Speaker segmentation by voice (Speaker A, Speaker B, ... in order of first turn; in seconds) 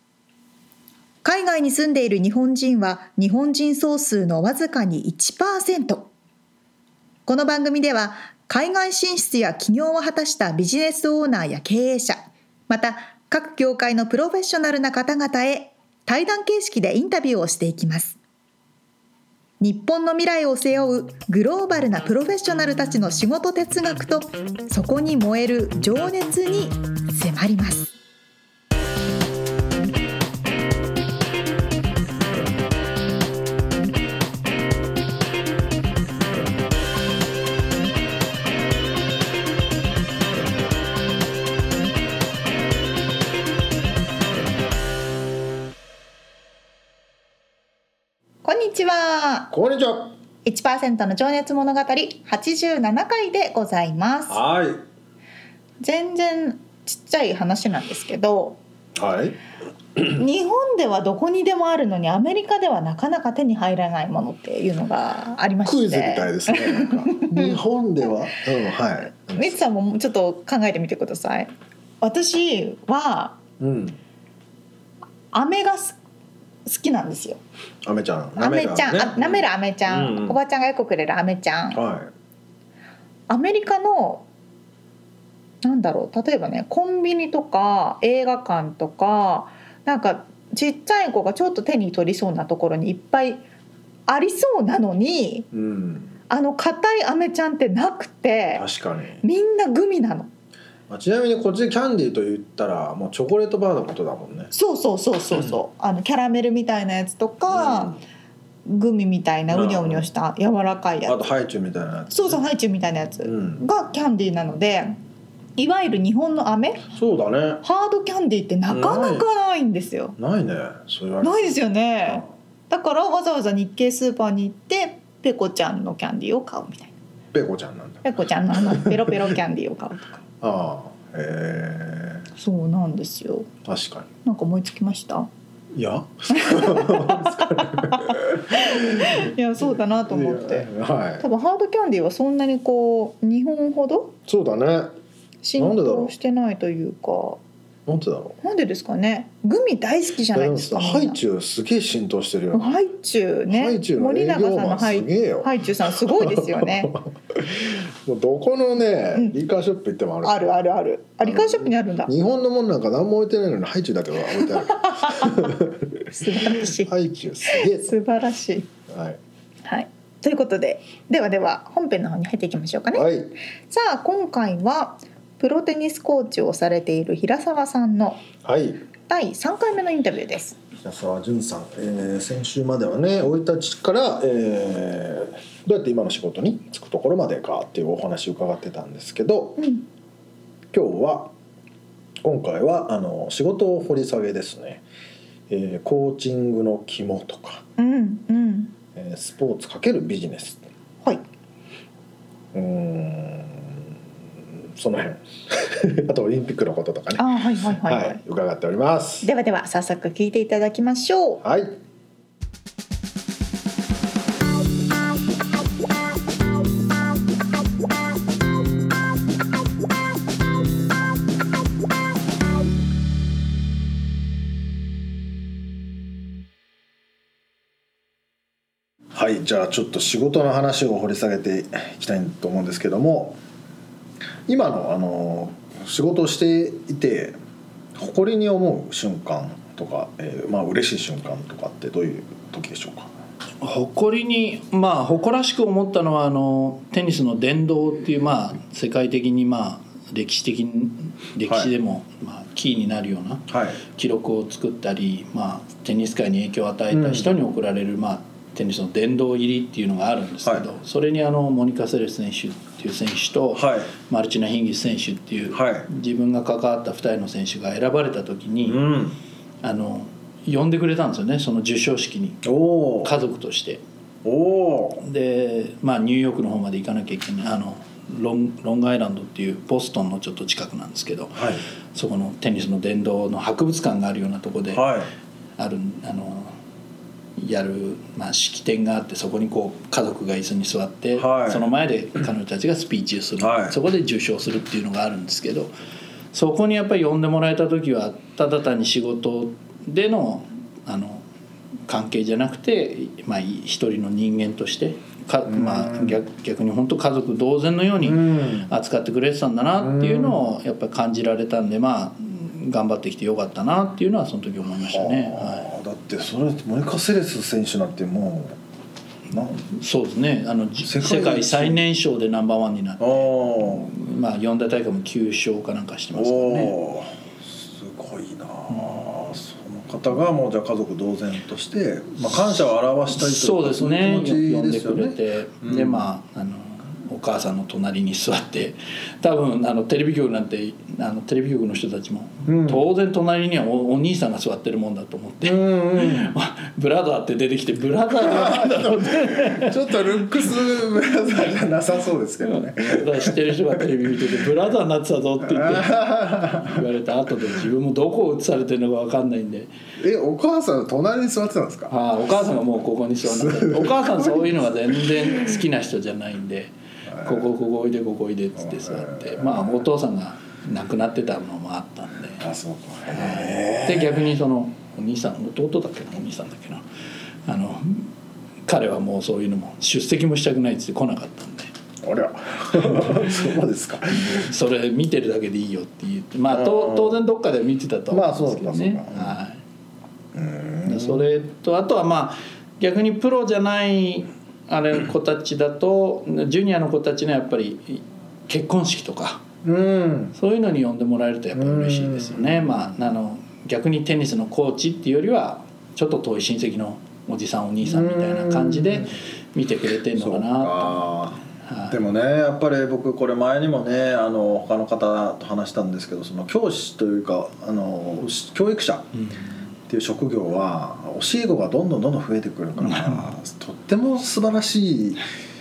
Speaker A: 1.2-6.1, 7.3-18.2, 19.6-27.9, 48.4-49.5, 50.5-54.4, 55.8-58.6, 60.1-67.6, 69.3-73.4, 75.3-76.0, 76.7-77.4, 78.4-81.8, 83.3-84.3, 85.6-93.4, 94.1-95.5, 96.3-98.7, 99.2-100.3, 104.5-108.0, 108.7-111.2, 112.1-115.0, 115.6-116.9, 117.6-120.2, 121.2-127.0, 128.0-130.2, 132.4-133.5, 134.2-135.3, 136.3-140.7, 141.2-144.2, 145.4-147.4, 148.4-151.2, 152.5-157.0, 160.2-162.1, 164.7-165.5, 166.2-166.9, 167.4-168.7, 169.7-173.1, 173.7-178.3, 179.1-180.6, 189.6-189.8, 197.8-198.7, 207.2-208.2, 209.2-211.4
Speaker B: 49.5-50.1, 54.3-54.8, 59.0-59.4, 65.6-69.6, 73.6-74.0, 77.8-80.4, 81.7-82.1, 95.5-96.1, 98.5-99.2, 100.9-104.5, 107.5-108.0, 109.5-110.1, 111.0-112.4, 113.2-113.6, 116.9-117.6, 118.7-119.2, 120.2-122.2, 127.3-129.3, 130.4-132.3, 133.7-134.1, 135.8-141.2, 144.3-144.9, 145.6-146.1, 147.9-148.4, 150.3-152.8, 153.5-160.5, 161.2-167.9, 168.9-169.2, 172.9-173.3, 178.4-178.8, 180.8-189.6, 190.7-191.3, 192.2-194.8, 195.5-197.6, 198.9-200.7, 202.5-203.8, 204.5-207.2, 207.8-209.3, 211.4-211.8, 229.1-233.4, 234.5-237.3, 237.9-243.1, 253.5-253.8, 256.9-257.3, 263.6-263.9, 265.5-265.9, 268.7-269.2, 272.4-273.1, 274.2-275.0, 281.4-281.6, 284.7-285.1, 291.2-291.6, 293.4-293.8, 305.5-306.2, 308.0-308.7, 309.8-310.4, 314.8-318.6, 320.8-321.8, 323.0-323.9, 326.1-336.1, 342.5-342.8, 345.4-346.3, 348.2-354.3, 355.4-356.8, 360.0-365.6, 367.1-367.4, 368.6-369.8, 372.4-374.3, 382.0-384.5, 386.5-387.2, 388.1-389.4, 390.3-391.2, 399.6-400.3, 401.6-402.9, 407.8-409.1, 410.1-411.4, 411.9-419.1, 419.9-425.2
Speaker C: 243.6-268.8, 269.6-272.4, 273.0-273.8, 275.0-284.9, 285.6-286.6, 287.4-295.7, 296.3-301.2, 301.9-315.7, 319.4-326.7, 333.1-349.8, 352.4-359.7, 361.9-372.4, 373.1-376.9, 377.4-378.1, 378.7-381.7, 384.2-389.6, 390.8-399.4, 400.4-412.0, 422.8-423.3